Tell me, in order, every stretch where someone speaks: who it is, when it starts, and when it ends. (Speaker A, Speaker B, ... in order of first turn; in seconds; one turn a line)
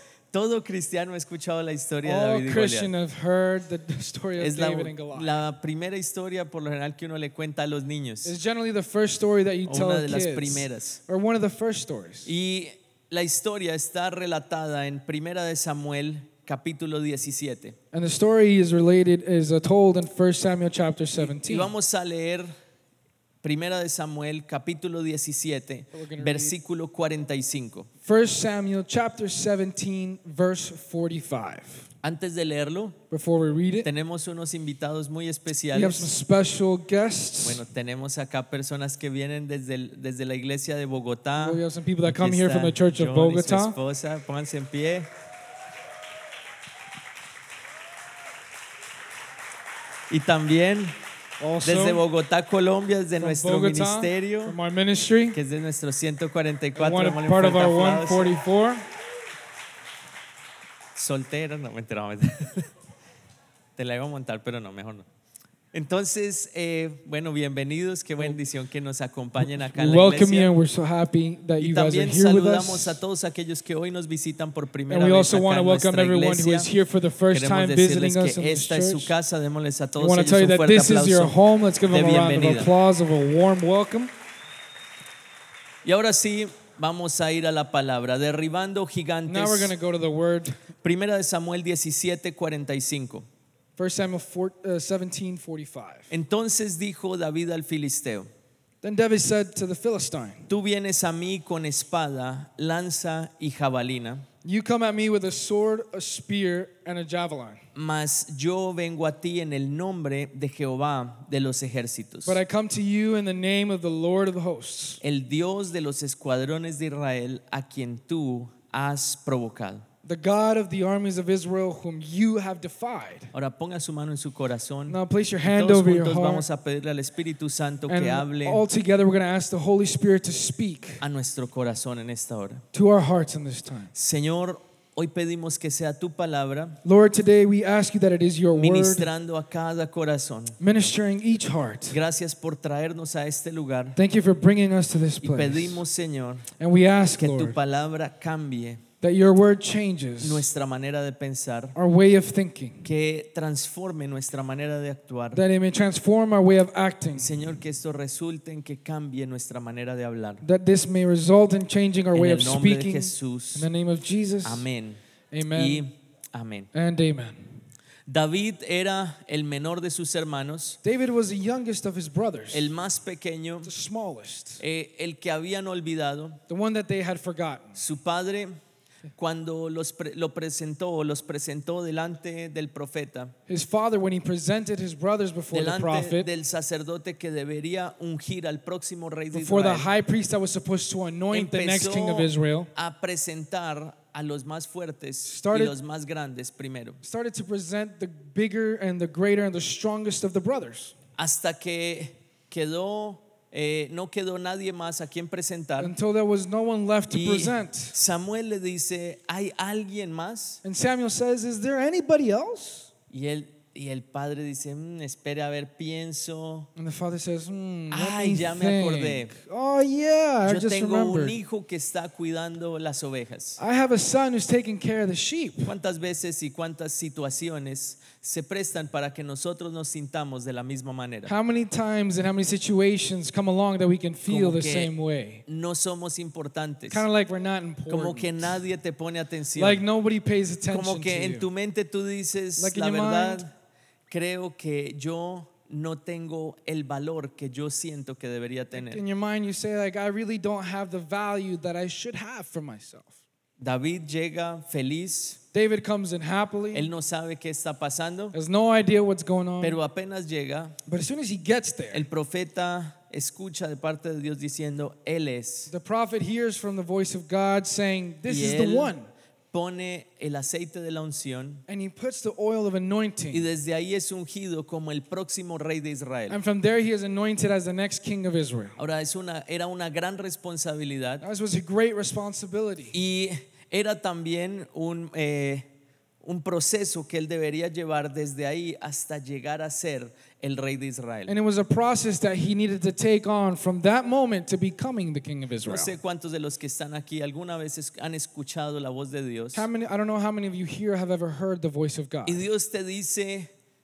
Speaker A: 0.3-2.9
Speaker B: 2.0-5.4
Speaker A: 4.4-8.3
Speaker B: 8.2-12.3
Speaker A: 9.7-11.0
Speaker A: 12.2-17.8
Speaker B: 17.9-21.7
Speaker A: 21.2-22.5
Speaker A: 23.4-27.9
Speaker B: 25.9-26.6
Speaker B: 28.1-31.9
Speaker A: 32.0-33.0
Speaker B: 33.1-33.9
Speaker A: 33.8-36.1
Speaker B: 35.7-37.6
Speaker A: 37.4-45.1
Speaker B: 41.4-43.8
Speaker A: 50.1-51.0
Speaker B: 51.4-52.0
Speaker A: 51.6-54.6
Speaker B: 53.2-55.4
Speaker A: 55.3-58.4
Speaker B: 56.8-58.8
Speaker A: 61.0-62.7
Speaker A: 63.8-65.1
Speaker A: 65.7-70.5
Speaker B: 69.4-73.0
Speaker A: 71.6-76.7
Speaker B: 74.9-79.1
Speaker A: 77.3-81.4
Speaker B: 80.0-84.1
Speaker A: 81.9-82.7
Speaker A: 85.8-89.7
Speaker B: 89.3-90.6
Speaker A: 90.8-93.3
Speaker B: 93.8-96.1
Speaker A: 96.1-98.3
Speaker B: 98.8-100.5
Speaker A: 100.5-104.3
Speaker B: 104.4-107.6
Speaker A: 107.7-112.4
Speaker B: 112.3-115.0
Speaker A: 115.0-119.8
Speaker B: 120.0-123.3
Speaker A: 123.3-128.6
Speaker B: 124.9-126.5
Speaker B: 127.9-131.0
Speaker A: 131.0-132.6
Speaker B: 132.7-133.9
Speaker A: 133.9-136.8
Speaker B: 136.8-139.1
Speaker A: 138.5-140.6
Speaker B: 140.6-142.0
Speaker A: 141.9-144.0
Speaker B: 143.9-145.8
Speaker A: 145.2-146.5
Speaker B: 146.6-147.6
Speaker A: 147.2-148.8
Speaker B: 149.0-150.5
Speaker A: 150.2-151.8
Speaker B: 151.8-152.8
Speaker A: 152.8-155.4
Speaker B: 155.3-157.3
Speaker A: 157.2-160.4
Speaker B: 160.4-164.7
Speaker A: 162.1-163.7
Speaker A: 164.4-165.0
Speaker B: 165.3-165.9
Speaker A: 165.5-166.7
Speaker B: 166.7-167.6
Speaker A: 168.1-170.8
Speaker B: 170.8-172.7
Speaker A: 172.5-173.7
Speaker B: 173.6-174.6
Speaker A: 174.6-176.4
Speaker B: 176.5-177.8
Speaker A: 177.8-178.6
Speaker A: 179.2-183.3
Speaker B: 183.5-186.3
Speaker A: 185.5-189.9
Speaker B: 189.3-192.7
Speaker A: 191.3-197.0
Speaker B: 195.2-195.8
Speaker B: 197.0-200.9
Speaker A: 201.2-205.9
Speaker B: 205.8-207.9
Speaker A: 207.1-210.6
Speaker B: 210.6-212.9
Speaker A: 213.1-216.7
Speaker B: 216.8-221.4
Speaker A: 217.9-219.3
Speaker A: 220.5-223.6
Speaker B: 223.6-225.7
Speaker A: 225.7-231.3
Speaker B: 231.3-235.4
Speaker A: 234.3-234.9
Speaker A: 235.5-237.0
Speaker B: 236.9-238.6
Speaker A: 237.9-239.8
Speaker B: 239.6-241.5
Speaker A: 240.7-243.5
Speaker B: 242.6-243.4
Speaker A: 244.1-249.0
Speaker B: 248.7-253.1
Speaker A: 253.6-255.4
Speaker B: 255.5-256.9
Speaker A: 256.7-258.4
Speaker B: 258.3-259.8
Speaker A: 259.6-260.8
Speaker B: 260.9-262.1
Speaker A: 261.9-265.7
Speaker B: 265.7-269.1
Speaker A: 268.3-268.9
Speaker A: 269.5-271.6
Speaker B: 271.7-273.4
Speaker A: 273.3-276.4
Speaker B: 276.3-278.8
Speaker A: 278.8-281.2
Speaker B: 281.2-282.9
Speaker A: 282.9-285.7
Speaker A: 286.2-291.4
Speaker B: 291.3-295.9
Speaker A: 295.6-299.7
Speaker B: 299.5-302.4
Speaker A: 302.3-303.5